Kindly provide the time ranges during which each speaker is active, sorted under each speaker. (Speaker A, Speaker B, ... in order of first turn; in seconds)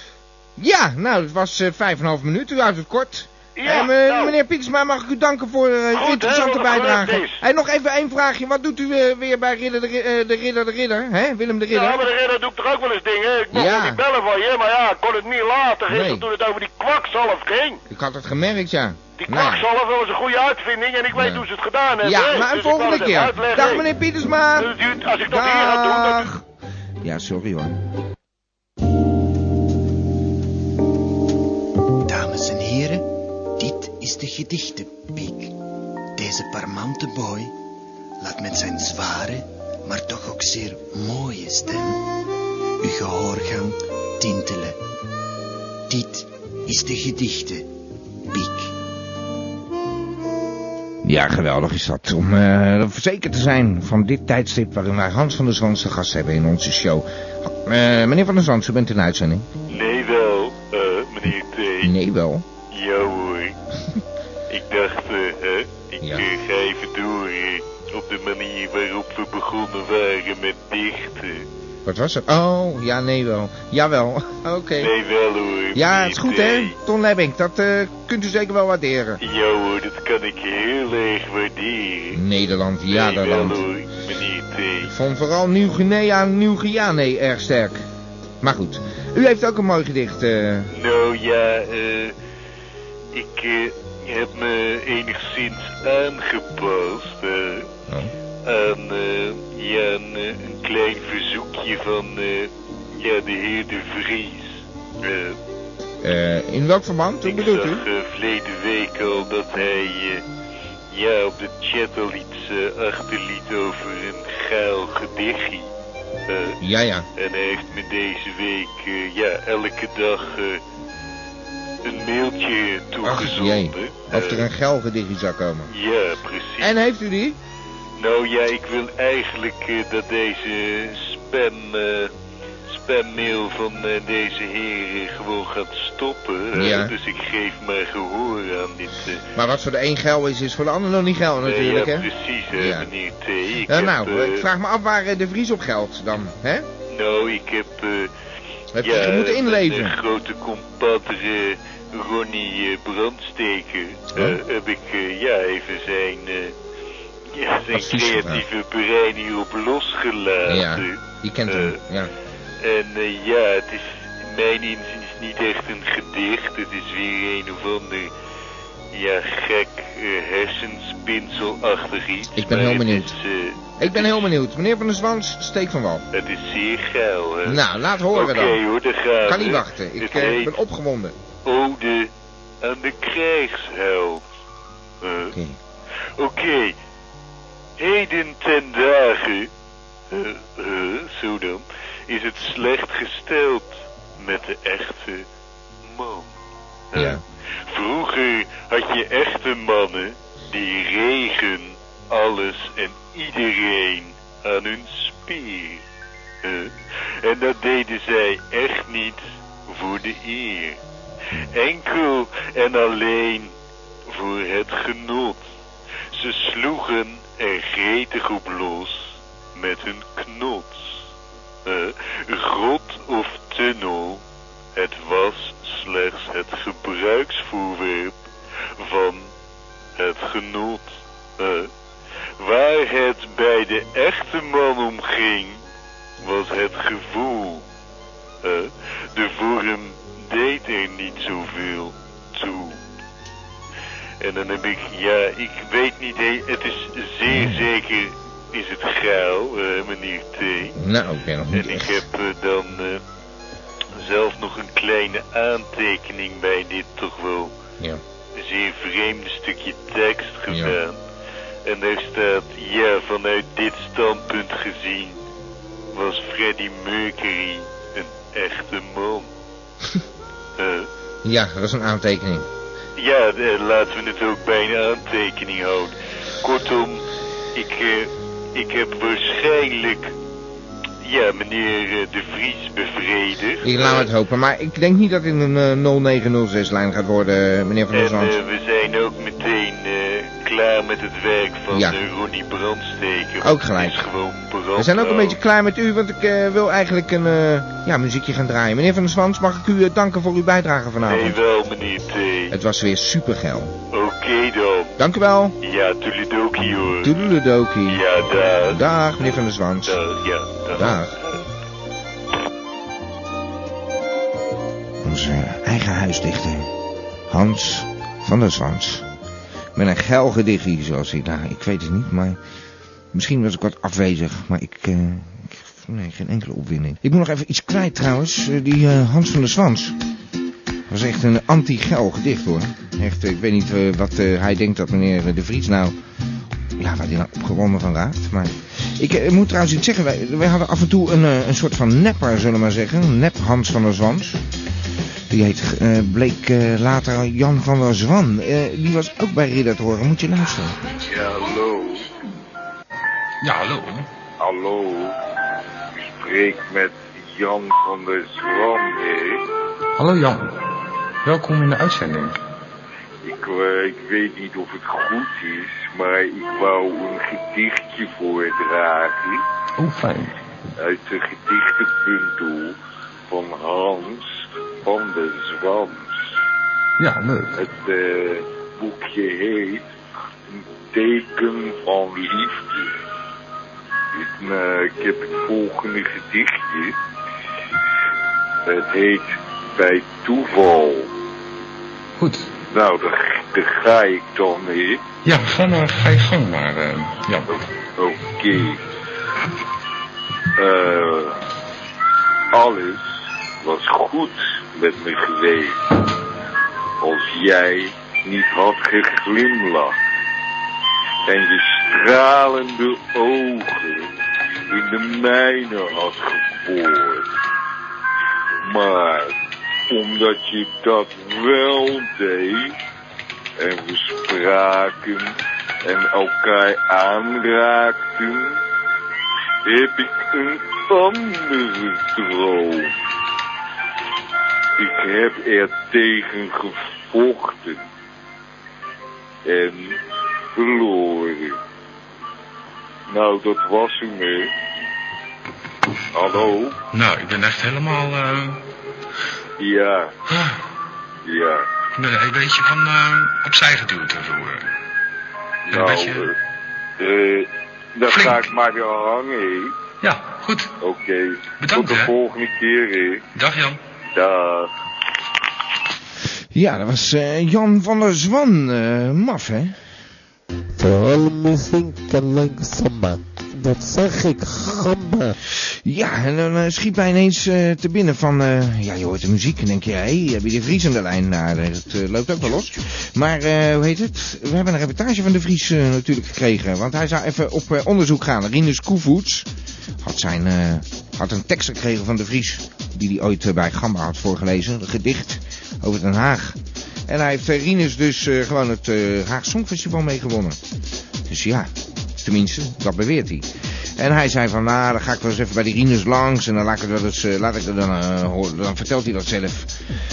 Speaker A: 0.6-12.1, 13.5-14.0, 15.9-16.2, 17.9-19.6, 21.1-21.4, 22.0-26.4, 27.0-27.8, 51.0-59.5, 61.8-62.4, 66.0-66.3, 71.8-74.9, 75.7-79.2, 82.1-83.6, 84.9-87.8, 88.4-90.7, 106.0-107.8, 116.6-117.0, 123.0-125.7, 126.6-127.4, 136.5-136.9, 139.3-142.9, 143.7-146.7, 148.7-150.0, 157.7-158.4, 160.4-162.1, 172.3-173.1, 173.8-176.0, 177.4-178.6, 179.2-181.1, 185.3-185.6, 196.9-197.2, 247.3-247.7, 250.7-252.0, 260.5-260.8, 271.2-272.4, 283.6-288.3, 291.7-292.0, 293.4-294.0, 294.8-301.4, 302.5-303.7, 305.0-305.5, 307.0-308.0, 308.6-310.0, 310.7-311.1, 315.0-316.7, 317.3-319.0, 319.8-322.4, 323.1-329.9, 330.9-335.9, 336.8-344.4, 345.3-350.8, 466.5-469.8, 475.6-489.5, 490.0-500.6, 501.3-501.7, 502.2-509.7
Speaker B: 3.5-4.3, 5.9-7.4, 11.7-17.8, 19.2-23.8, 24.6-26.3
Speaker C: 32.1-33.0, 33.6-35.5, 36.2-37.5, 38.2-42.0, 42.8-44.8, 45.9-47.6, 48.3-48.7
Speaker D: 59.7-61.9, 62.7-63.5, 64.5-71.5, 74.8-76.7, 79.2-82.2, 82.9-84.9, 90.7-92.1, 93.1-97.7, 98.4-105.4, 107.2-110.2, 110.9-115.7, 116.3-116.6, 117.2-120.6, 121.8-124.4, 125.7-126.8, 128.0-132.1, 132.7-139.2, 141.4-144.4, 146.9-148.1, 148.8-156.5, 157.3-161.8, 162.6-168.1, 168.9-174.3, 176.1-177.6, 178.1-180.6, 181.4-182.1, 182.6-184.2, 185.0-185.3, 186.2-186.8, 187.8-189.5, 190.1-195.2, 195.8-196.3, 196.9-205.8, 206.4-210.8, 211.4-213.5, 214.1-215.4, 216.1-221.0, 221.6-224.2, 224.7-228.2, 228.8-229.3, 230.0-231.7, 232.4-235.6, 236.2-237.6, 238.4-242.8, 244.2-250.7, 251.5-253.0, 254.0-257.5, 258.4-261.0, 261.6-265.2, 265.9-269.3, 270.6-270.9, 272.9-280.1, 281.0-284.1, 287.9-295.4, 301.0-302.5, 303.9-304.9, 305.6-307.2, 307.9-308.8, 309.8-311.0
Speaker E: 351.0-352.1, 354.4-355.1, 356.0-359.4, 363.2-369.4, 370.8-372.8, 373.3-374.3, 374.8-376.1, 377.6-379.9, 380.5-382.9, 384.1-387.0, 388.6-391.1, 392.7-395.0, 398.0-398.8, 400.6-401.4, 402.5-403.0, 403.6-405.8, 407.0-409.9, 411.2-414.1, 414.7-417.3, 418.6-419.3, 419.9-422.7, 423.6-428.6, 429.6-432.9, 434.8-437.8, 439.4-440.0, 440.5-441.6, 443.1-444.5, 446.1-446.8, 449.6-450.1, 451.2-451.7, 455.7-456.3, 457.0-459.8, 460.8-463.2, 464.1-464.7
Speaker F: 353.4-354.1, 360.0-360.6, 361.2-362.4, 369.8-370.3, 377.0-377.6, 392.2-392.5, 395.2-397.5, 446.9-448.6, 450.3-450.6, 451.9-454.7, 455.7-456.3, 458.1-458.5, 460.0-460.7, 461.6-462.1, 463.3-463.8
Speaker G: 470.8-475.3